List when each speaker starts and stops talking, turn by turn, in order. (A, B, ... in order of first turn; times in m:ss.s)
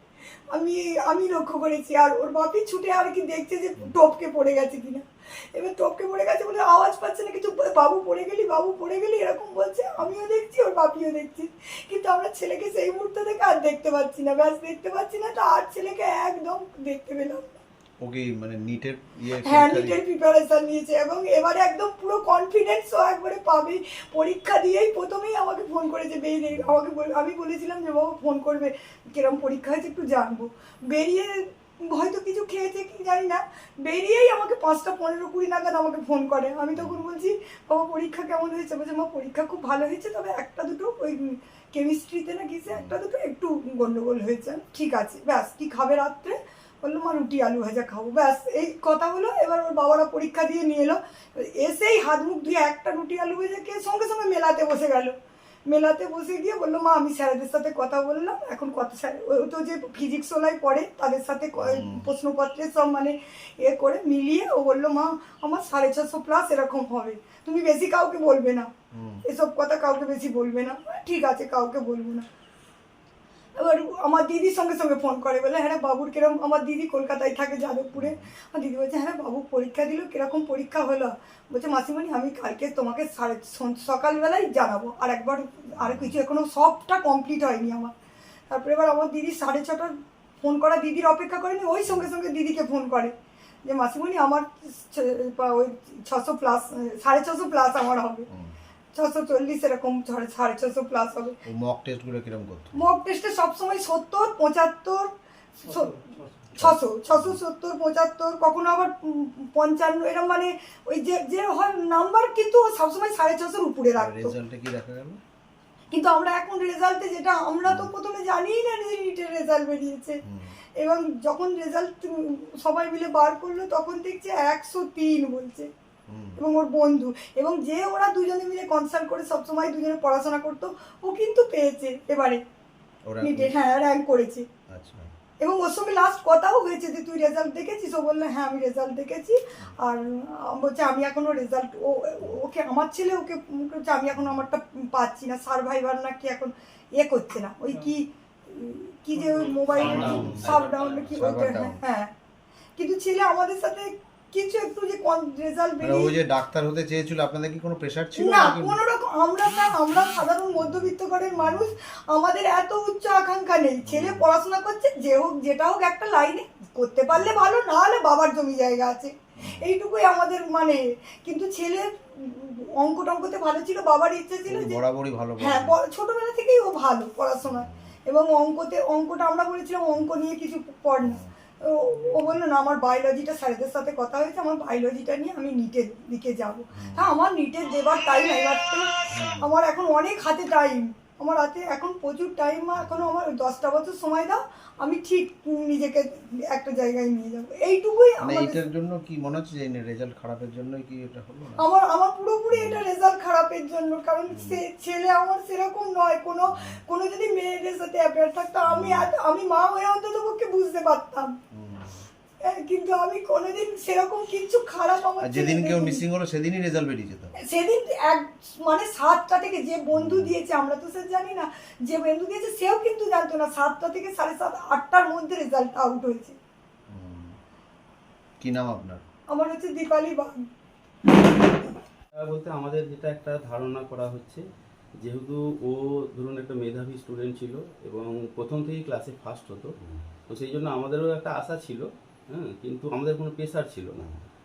0:00.5-0:17.6 A
0:18.0-0:20.0 B
0:19.4-0:55.1 A
0:26.5-0:26.8 B
0:36.8-0:37.0 B
0:42.7-0:43.0 B
0:55.7-1:08.7 A
1:01.6-1:02.1 B
1:08.9-1:09.2 B
1:09.2-1:12.2 A
1:13.6-1:27.9 A
1:17.9-1:18.3 B
1:25.8-1:26.2 B
1:28.5-1:33.1 A
1:33.6-1:38.3 A
1:38.3-1:38.5 B
1:38.9-1:41.4 A
1:41.4-1:43.0 B
1:42.7-1:45.1 A
1:45.6-1:46.0 A
1:46.6-1:47.4 B
1:46.6-1:54.3 A
1:54.0-1:55.2 B
1:55.9-2:00.2 A
1:57.6-1:57.9 B
2:00.2-2:00.6 B
2:00.8-2:05.7 A
2:06.1-2:06.4 B
2:06.4-2:12.4 A
2:13.1-2:13.5 B
2:13.2-2:14.4 A
2:14.7-2:15.1 B
2:15.4-2:32.1 A
2:24.1-2:24.4 B
2:29.8-2:30.4 C
2:30.0-2:30.6 B
2:31.1-2:31.8 B
2:32.8-2:36.2 A
2:35.8-2:38.8 B
2:38.2-2:54.8 A
2:40.5-2:41.7 B
2:43.8-2:44.3 B
2:47.1-2:47.5 B
2:49.4-2:49.7 B
2:54.5-2:55.8 B
2:55.4-3:08.9 A
2:57.4-2:57.9 B
3:01.0-3:01.3 B
3:06.7-3:07.2 B
3:09.1-3:09.5 B
3:09.4-3:18.6 A
3:12.8-3:13.1 B
3:18.2-3:21.6 B
3:21.6-3:31.3 A
3:22.5-3:22.8 B
3:24.3-3:24.6 B
3:26.5-3:26.8 B
3:28.6-3:29.1 B
3:31.5-3:32.0 B
3:32.4-3:36.0 A
3:35.2-3:37.3 B
3:37.4-3:46.4 A
3:39.9-3:40.4 B
3:46.9-3:47.4 B
3:48.4-3:49.0 B
3:49.3-3:50.4 A
3:52.1-3:54.4 C
3:55.0-3:59.7 C
4:00.3-4:04.1 C
4:04.0-4:04.2 B